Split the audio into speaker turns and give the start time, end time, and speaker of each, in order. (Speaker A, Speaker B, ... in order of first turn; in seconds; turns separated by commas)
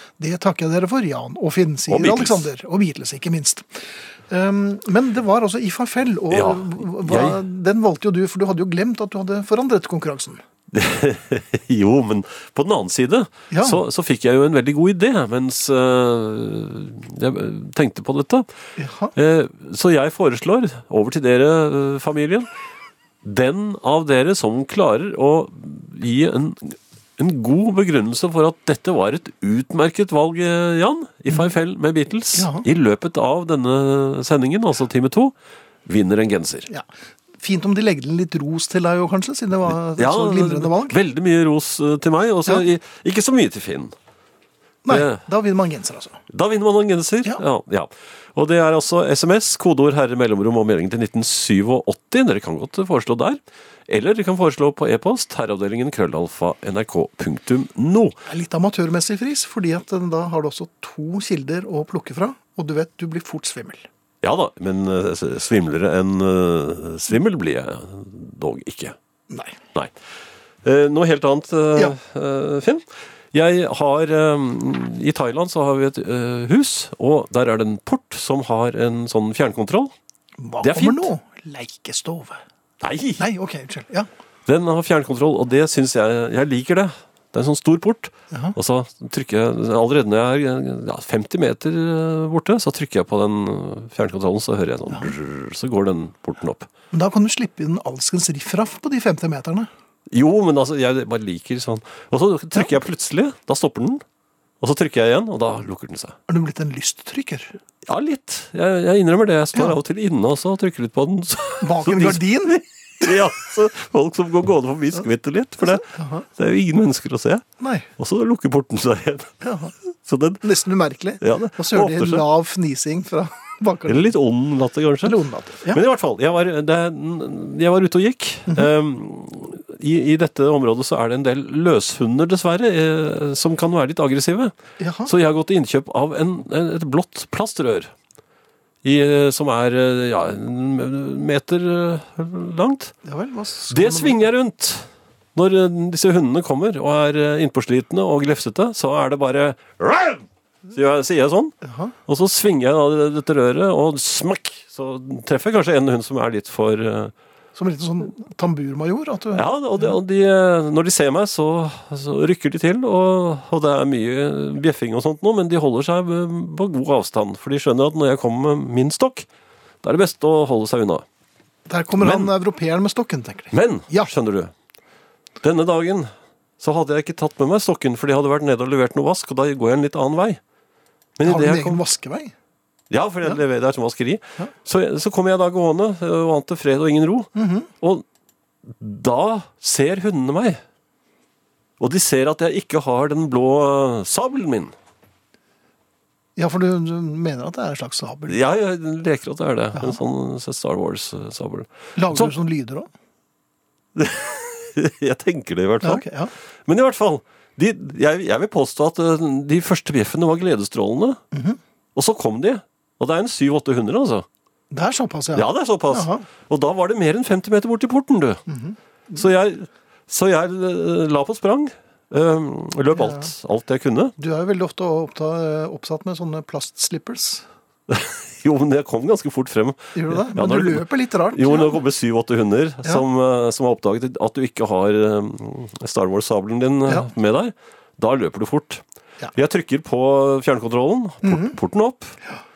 Speaker A: 0.2-10.4, Speaker B: 1.9-2.5, Speaker B: 6.3-7.4, Speaker B: 10.7-18.5, Speaker A: 13.5-13.8, Speaker A: 18.8-19.1, Speaker B: 19.1-22.5, Speaker B: 23.2-35.3, Speaker A: 32.3-32.6, Speaker B: 35.9-36.7, Speaker A: 37.4-41.0, Speaker B: 39.7-43.9, Speaker A: 44.8-46.2, Speaker B: 44.9-45.2, Speaker B: 46.3-58.1, Speaker A: 58.3-63.9, Speaker B: 64.2-69.0, Speaker A: 69.3-69.6, Speaker B: 70.6-79.9, Speaker A: 80.4-82.4, Speaker B: 80.6-81.1, Speaker B: 82.8-83.2, Speaker A: 83.2-84.1, Speaker B: 84.5-96.7, Speaker A: 96.9-99.7, Speaker B: 100.1-104.0, Speaker B: 104.6-106.2, Speaker A: 106.3-107.5, Speaker B: 107.8-117.4, Speaker A: 111.6-113.1, Speaker A: 115.6-116.3, Speaker A: 117.6-117.9, Speaker B: 118.0-119.3, Speaker A: 119.4-119.7, Speaker B: 120.0-120.5, Speaker A: 120.4-124.1, Speaker B: 121.2-122.2, Speaker B: 123.9-134.5, Speaker A: 125.0-125.8, Speaker A: 134.8-135.1, Speaker B: 135.1-137.9, Speaker B: 138.8-142.9, Speaker A: 143.0-144.2, Speaker B: 143.7-157.1, Speaker A: 151.6-151.9, Speaker A: 157.5-159.9, Speaker B: 159.3-169.2, Speaker B: 169.8-171.0, Speaker A: 171.7-174.1, Speaker B: 172.0-172.3, Speaker B: 173.5-174.5, Speaker B: 175.4-180.4, Speaker B: 181.2-181.8, Speaker A: 181.2-182.3, Speaker B: 182.9-188.0, Speaker A: 187.3-187.7, Speaker B: 188.7-190.6, Speaker B: 191.8-194.7, Speaker A: 196.3-198.4, Speaker B: 198.3-202.3, Speaker A: 201.9-202.9, Speaker B: 203.9-206.1, Speaker A: 205.8-206.3, Speaker B: 206.7-211.2, Speaker A: 211.3-211.6, Speaker B: 211.9-214.2, Speaker A: 214.7-216.2, Speaker B: 215.3-218.4, Speaker A: 218.5-219.2, Speaker B: 219.2-224.1, Speaker A: 222.9-223.3, Speaker A: 224.2-227.4, Speaker B: 227.9-238.8, Speaker A: 229.9-231.8, Speaker B: 239.3-242.2, Speaker A: 241.2-241.6